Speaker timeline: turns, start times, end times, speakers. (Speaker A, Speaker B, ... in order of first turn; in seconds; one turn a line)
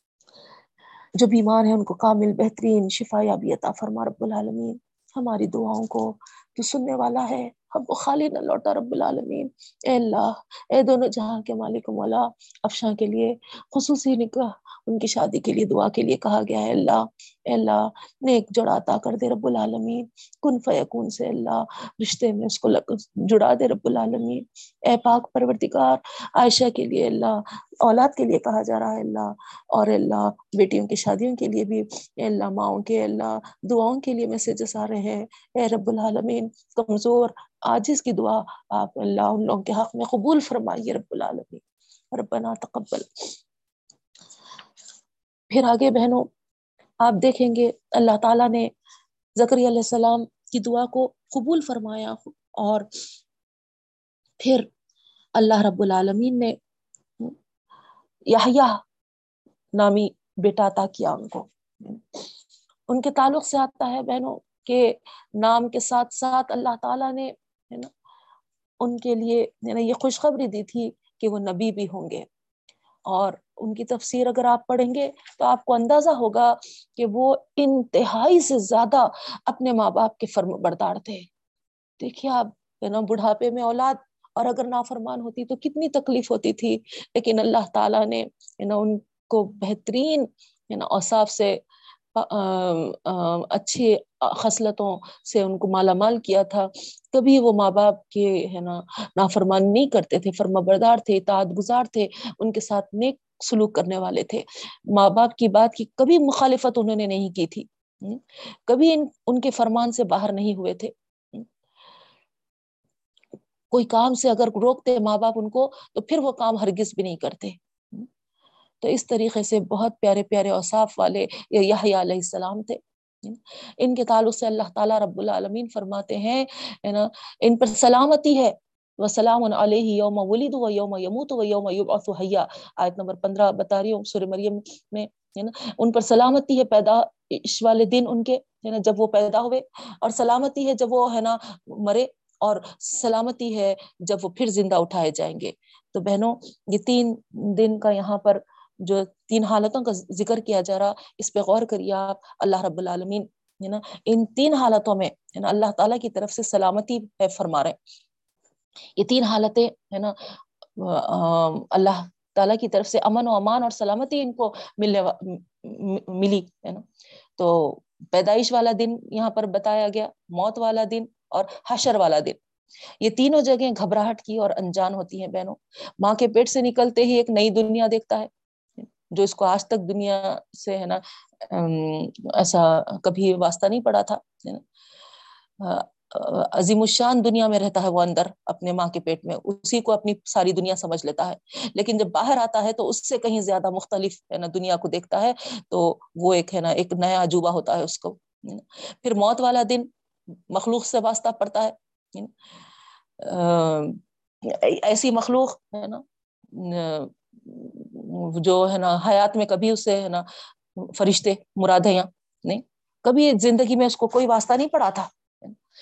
Speaker A: 1.2-43.3
Speaker A: 45.5-46.3
Speaker A: 47.0-48.7
Speaker A: 49.4-52.9
Speaker A: 54.4-54.7
Speaker A: 55.4-56.6
Speaker A: 58.3-58.8
Speaker A: 59.7-62.2
Speaker A: 62.9-67.9
Speaker A: 68.8-72.3
Speaker A: 73.1-81.3
Speaker A: 82.0-91.6
Speaker A: 92.1-111.5
Speaker A: 113.7-118.1
Speaker A: 118.8-157.8
Speaker A: 159.0-172.4
Speaker A: 173.0-178.3
Speaker A: 179.1-184.6
Speaker A: 185.6-199.9
Speaker A: 200.5-202.3
Speaker A: 203.2-210.3
Speaker A: 210.8-215.6